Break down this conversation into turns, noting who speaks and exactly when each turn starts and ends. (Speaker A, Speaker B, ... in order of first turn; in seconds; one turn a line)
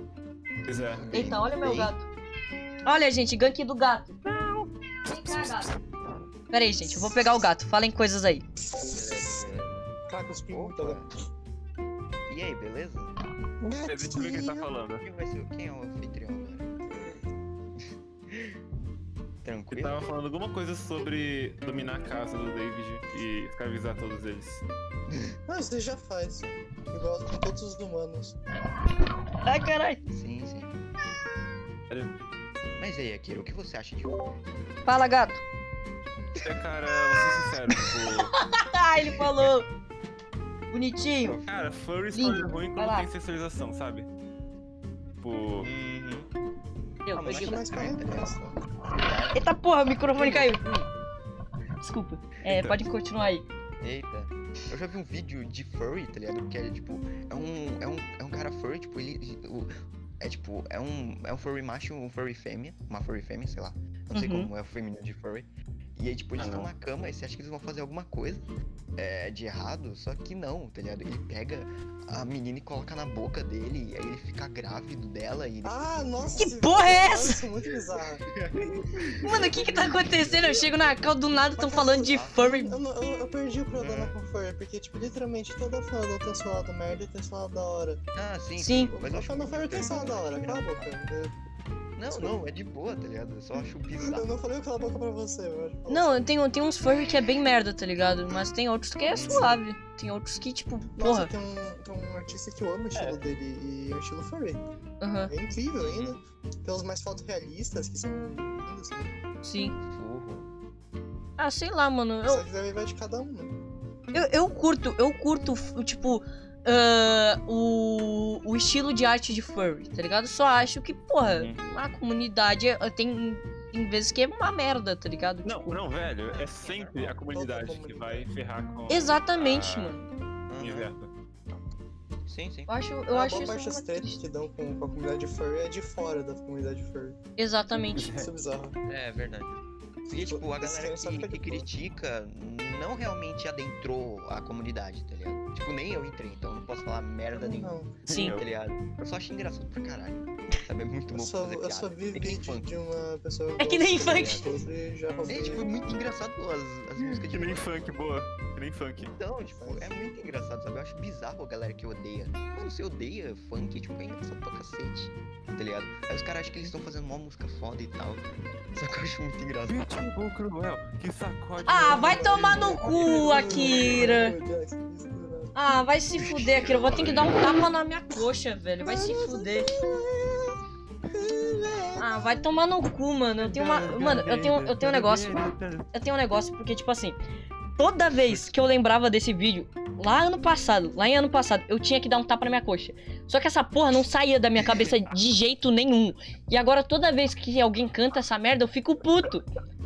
Speaker A: 0.7-1.1
Speaker B: 0.7-1.9
Speaker C: 1.1-2.1
Speaker C: 2.8-4.2
Speaker A: 4.2-4.7
Speaker C: 5.1-5.7
Speaker A: 5.3-5.6
Speaker C: 6.5-8.4
Speaker D: 6.9-7.4
Speaker D: 8.7-9.4
Speaker B: 8.9-9.9
Speaker D: 10.1-11.1
Speaker B: 10.5-11.1
Speaker B: 12.3-13.1
Speaker D: 13.6-14.7
Speaker A: 13.8-15.1
Speaker B: 15.0-16.7
Speaker B: 17.8-18.6
Speaker B: 19.4-20.0
Speaker A: 19.7-24.6
Speaker D: 25.5-28.4
Speaker B: 26.4-26.7
Speaker C: 29.4-30.0
Speaker B: 30.1-30.8
Speaker B: 32.8-34.4
Speaker C: 34.9-35.4
Speaker A: 36.4-38.3
Speaker C: 38.3-39.7
Speaker C: 40.7-41.4
Speaker B: 41.2-41.6
Speaker A: 41.5-44.1
Speaker C: 42.1-43.1
Speaker A: 45.2-45.7
Speaker B: 45.6-46.3
Speaker C: 47.0-47.7
Speaker B: 47.1-48.4
Speaker D: 47.3-48.6
Speaker B: 48.9-49.4
Speaker C: 49.3-50.9
Speaker B: 50.2-50.5
Speaker C: 51.8-53.5
Speaker A: 52.5-52.8
Speaker B: 53.8-75.8
Speaker C: 64.1-64.5
Speaker A: 66.4-66.7
Speaker D: 75.6-78.3
Speaker C: 76.4-77.4
Speaker B: 78.4-79.9
Speaker C: 79.2-82.8
Speaker D: 79.2-80.7
Speaker D: 81.6-88.0
Speaker B: 82.0-82.4
Speaker B: 83.8-84.2
Speaker B: 88.1-90.9
Speaker C: 88.6-88.9
Speaker D: 88.9-91.4
Speaker B: 92.0-94.3
Speaker D: 92.1-92.4
Speaker D: 94.1-96.3
Speaker C: 95.9-101.3
Speaker B: 99.1-99.6
Speaker D: 99.2-99.5
Speaker D: 101.0-104.6
Speaker A: 102.9-103.2
Speaker C: 105.0-105.3
Speaker D: 105.3-109.2
Speaker B: 105.8-106.2
Speaker C: 109.4-109.8
Speaker B: 109.9-110.5
Speaker C: 111.4-112.5
Speaker D: 112.3-113.5
Speaker C: 114.1-125.7
Speaker A: 121.3-121.6
Speaker A: 125.4-130.0
Speaker B: 126.3-127.2
Speaker D: 127.3-128.3
Speaker C: 128.9-130.0
Speaker B: 130.5-130.9
Speaker A: 130.6-131.1
Speaker B: 132.3-132.7
Speaker C: 132.7-134.2
Speaker D: 133.1-137.2
Speaker C: 137.4-138.1
Speaker A: 138.0-138.3
Speaker D: 138.1-138.8
Speaker B: 138.9-139.5
Speaker B: 140.1-152.7
Speaker D: 140.2-141.7
Speaker D: 147.3-147.9
Speaker A: 148.1-148.5
Speaker C: 148.1-148.4
Speaker D: 151.1-155.7
Speaker C: 153.6-154.5
Speaker B: 154.1-154.5
Speaker B: 155.3-158.0
Speaker A: 157.0-159.1
Speaker B: 159.0-169.8
Speaker D: 159.5-160.0
Speaker A: 169.7-174.0
Speaker C: 171.7-174.4
Speaker D: 171.8-175.5
Speaker C: 175.6-179.7
Speaker B: 176.2-177.3
Speaker A: 176.7-177.4
Speaker D: 178.9-180.6
Speaker D: 181.1-182.4
Speaker C: 182.0-185.4
Speaker A: 183.4-185.9
Speaker C: 185.9-187.2
Speaker C: 187.8-199.5